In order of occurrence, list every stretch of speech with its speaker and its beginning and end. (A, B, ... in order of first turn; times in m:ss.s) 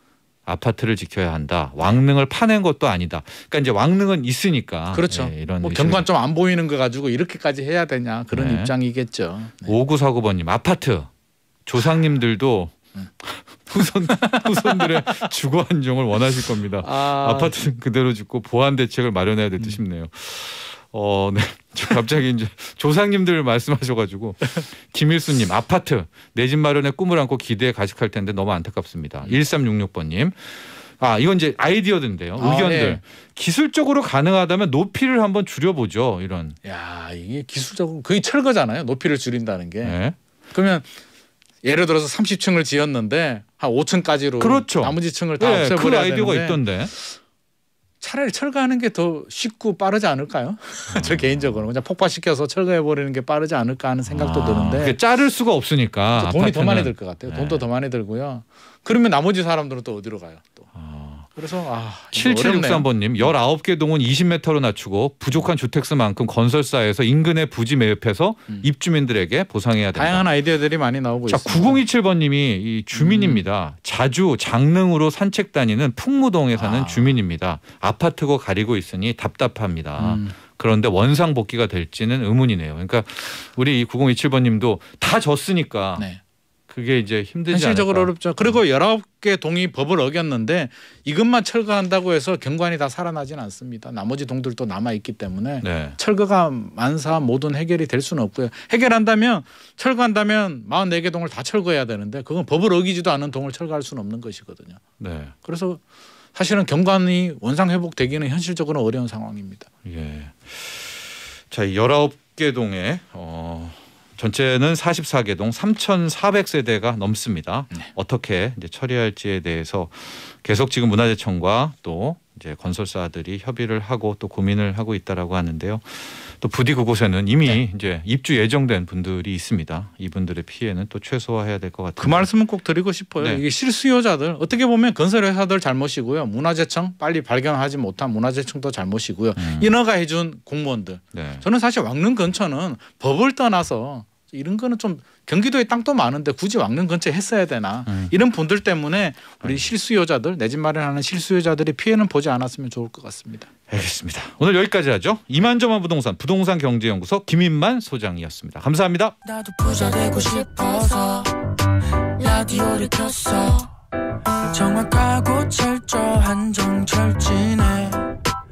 0:00.4-0:06.0 A
0:04.9-0:09.7 B
0:08.3-0:08.7 A
0:09.6-0:11.1 A
0:11.6-0:36.6 A
0:14.1-0:15.1 B
0:16.8-0:17.5 B
0:32.4-0:33.0 B
0:36.6-0:40.0 B
0:39.8-0:40.2 A
0:40.5-0:40.9 B
0:41.6-0:47.2 B
0:44.4-0:46.9 A
0:48.0-0:55.0 B
0:50.9-0:51.6 A
0:54.1-0:57.6 A
0:56.1-1:00.7 B
1:00.7-1:01.3 A
1:01.4-1:03.3 B
1:02.1-1:10.2 A
1:10.0-1:11.8 B
1:11.3-1:26.0 A
1:12.9-1:13.4 B
1:16.5-1:17.2 B
1:20.0-1:20.3 B
1:26.7-1:28.6 A
1:27.5-1:44.8 B
1:35.6-1:36.0 A
1:45.0-1:45.3 A
1:45.4-1:45.8 B
1:46.3-1:49.7 B
1:49.8-2:12.3 A
2:12.0-2:33.5 B
2:19.4-2:19.7 A
2:21.1-2:21.4 A
2:29.4-2:29.7 A
2:33.7-2:39.1 A
2:39.2-2:41.3 C
2:42.2-2:43.7 C
2:44.5-2:48.0 C